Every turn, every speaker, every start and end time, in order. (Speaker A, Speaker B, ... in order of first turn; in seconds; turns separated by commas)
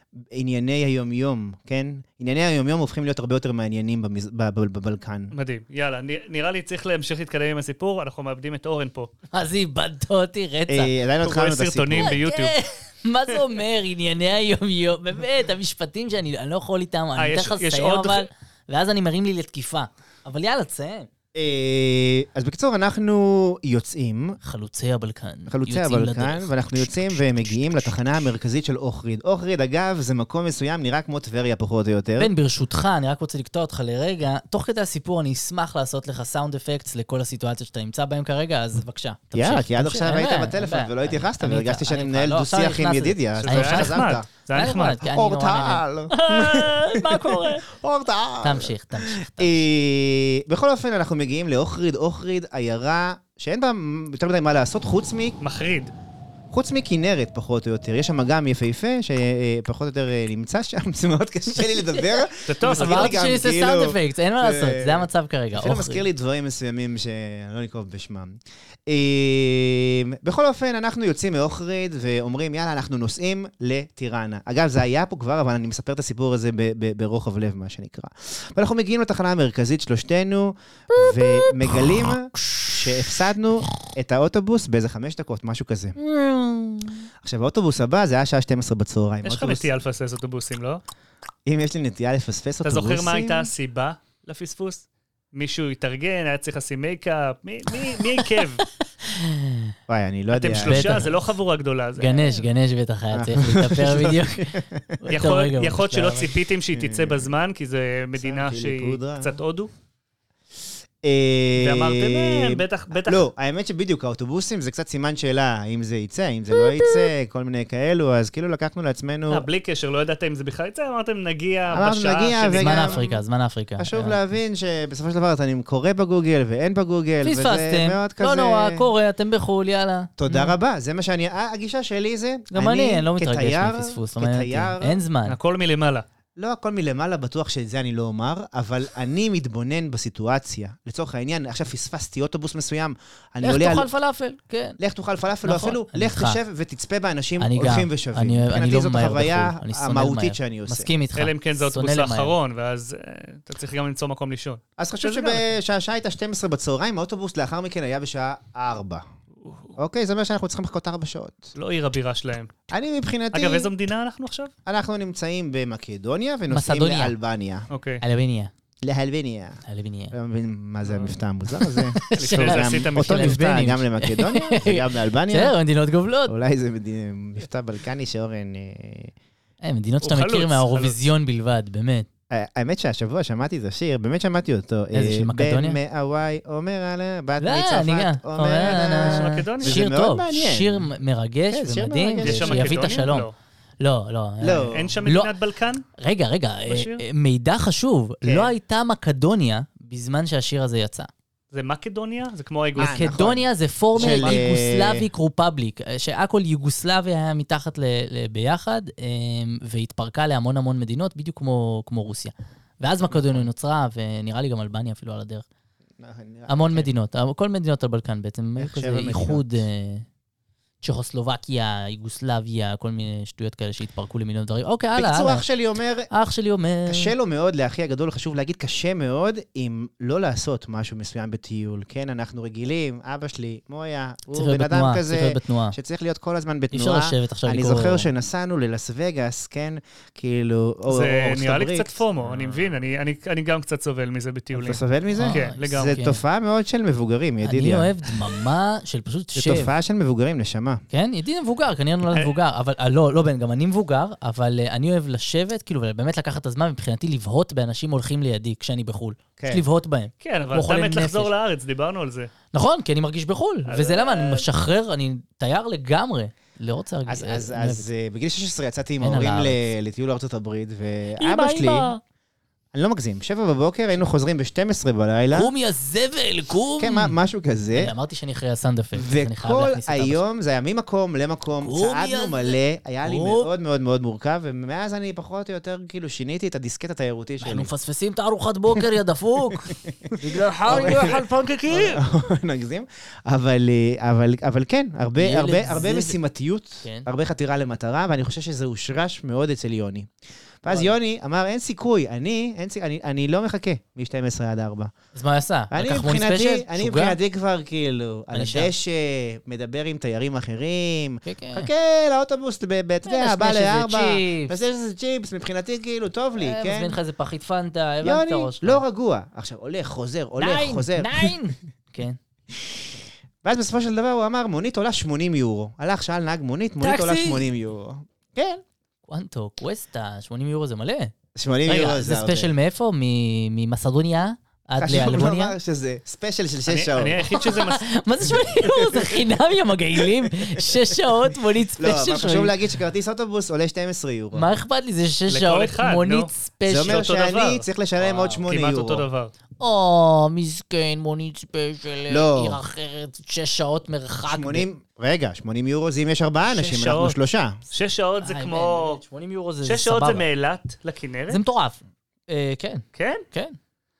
Speaker A: 0.3-5.3, Speaker B: 5.3-9.1, Speaker C: 9.3-10.9, Speaker A: 10.7-12.2, Speaker B: 11.2-12.6, Speaker C: 12.0-21.1, Speaker B: 17.2-18.3, Speaker A: 21.3-24.4, Speaker C: 24.4-28.0, Speaker A: 25.5-32.3, Speaker C: 32.2-44.0, Speaker A: 39.3-44.3, Speaker B: 43.4-45.0, Speaker C: 44.5-45.9, Speaker A: 45.0-55.4, Speaker B: 46.1-47.6, Speaker C: 48.4-49.6, Speaker B: 55.4-55.9, Speaker A: 56.5-86.0, Speaker C: 61.6-66.0, Speaker B: 62.5-63.2, Speaker C: 80.9-82.8, Speaker C: 86.0-87.0, Speaker A: 87.2-89.7, Speaker B: 89.2-90.8, Speaker A: 91.5-93.5, Speaker B: 92.6-98.7, Speaker C: 99.0-99.7, Speaker A: 99.9-101.1, Speaker B: 100.3-102.4, Speaker C: 100.6-101.1, Speaker C: 102.0-106.3, Speaker A: 103.1-105.0, Speaker B: 105.1-109.7, Speaker A: 106.7-107.3, Speaker A: 108.2-109.4, Speaker A: 111.0-119.5, Speaker B: 111.6-113.3, Speaker B: 119.3-123.0, Speaker A: 121.7-123.2, Speaker C: 122.6-124.2, Speaker A: 123.8-128.9, Speaker C: 127.2-130.5, Speaker A: 130.2-135.0, Speaker C: 132.5-135.4, Speaker B: 135.3-136.1, Speaker A: 136.4-143.9, Speaker C: 143.4-144.8, Speaker A: 144.8-150.9, Speaker C: 145.4-146.4, Speaker C: 147.4-152.3, Speaker B: 151.2-155.5, Speaker A: 154.8-159.0, Speaker B: 159.4-159.7, Speaker A: 159.8-161.5, Speaker B: 161.6-162.5, Speaker A: 162.7-163.7, Speaker B: 163.3-164.5, Speaker A: 164.7-167.7, Speaker C: 166.5-167.2, Speaker B: 167.7-168.0, Speaker C: 168.0-168.5, Speaker A: 168.8-175.6, Speaker C: 169.7-170.1, Speaker B: 170.9-171.1, Speaker C: 171.6-176.3, Speaker B: 172.2-173.4, Speaker A: 176.3-179.1, Speaker C: 179.6-182.1, Speaker B: 180.0-181.0, Speaker A: 182.3-190.9, Speaker C: 184.9-185.8, Speaker C: 187.4-193.3, Speaker B: 188.7-189.8, Speaker A: 191.5-193.1, Speaker B: 192.2-193.3, Speaker C: 193.8-195.3, Speaker A: 194.4-195.0, Speaker B: 194.7-195.8, Speaker C: 196.0-201.1, Speaker B: 196.7-197.0, Speaker A: 198.2-198.5, Speaker B: 201.5-203.1, Speaker A: 202.8-205.1, Speaker C: 202.8-215.5, Speaker B: 204.0-204.4, Speaker A: 213.1-213.5, Speaker A: 216.0-216.9, Speaker C: 216.5-220.1, Speaker A: 218.6-219.6, Speaker C: 220.8-225.5, Speaker A: 224.9-226.1, Speaker C: 226.1-227.1, Speaker A: 226.9-242.8, Speaker C: 234.3-235.8, Speaker C: 236.7-238.1, Speaker B: 240.9-246.0, Speaker A: 244.5-247.9, Speaker C: 245.1-246.2, Speaker C: 247.4-249.7, Speaker A: 249.3-250.8, Speaker C: 250.9-261.3, Speaker A: 259.4-259.6, Speaker B: 260.2-262.3, Speaker C: 262.5-267.9, Speaker B: 263.7-264.5, Speaker A: 267.1-271.9, Speaker C: 269.0-269.7, Speaker C: 271.2-272.0, Speaker A: 272.7-275.5, Speaker C: 275.3-277.1, Speaker A: 276.8-277.9, Speaker C: 277.8-280.2, Speaker A: 279.0-287.7, Speaker C: 281.6-283.5, Speaker C: 287.4-291.9, Speaker A: 289.9-290.1, Speaker A: 290.7-291.2, Speaker B: 290.7-292.0, Speaker A: 291.7-300.1, Speaker C: 295.2-296.2, Speaker C: 296.8-297.1, Speaker A: 300.6-304.9, Speaker C: 300.7-300.9, Speaker C: 305.1-307.2, Speaker A: 305.7-317.0, Speaker C: 308.3-308.7, Speaker C: 311.2-311.7, Speaker C: 313.1-314.5, Speaker C: 316.4-318.8, Speaker A: 318.0-321.4, Speaker C: 320.4-322.2, Speaker A: 322.5-322.8, Speaker A: 323.4-328.6, Speaker C: 326.8-327.5, Speaker C: 329.1-331.1, Speaker A: 331.4-332.5, Speaker C: 331.7-335.6, Speaker A: 334.8-337.3, Speaker B: 336.7-337.9, Speaker C: 337.2-342.5, Speaker A: 338.6-339.2, Speaker A: 340.0-341.1, Speaker A: 341.8-344.5, Speaker C: 344.3-347.1, Speaker B: 345.3-346.3, Speaker A: 346.7-349.1, Speaker B: 346.8-347.7, Speaker C: 348.0-348.4, Speaker B: 348.5-349.3, Speaker C: 349.6-354.7, Speaker A: 352.1-352.6, Speaker A: 354.3-357.6, Speaker B: 356.5-359.0, Speaker C: 358.2-360.2, Speaker B: 359.6-361.4, Speaker C: 361.3-363.6, Speaker B: 362.9-363.2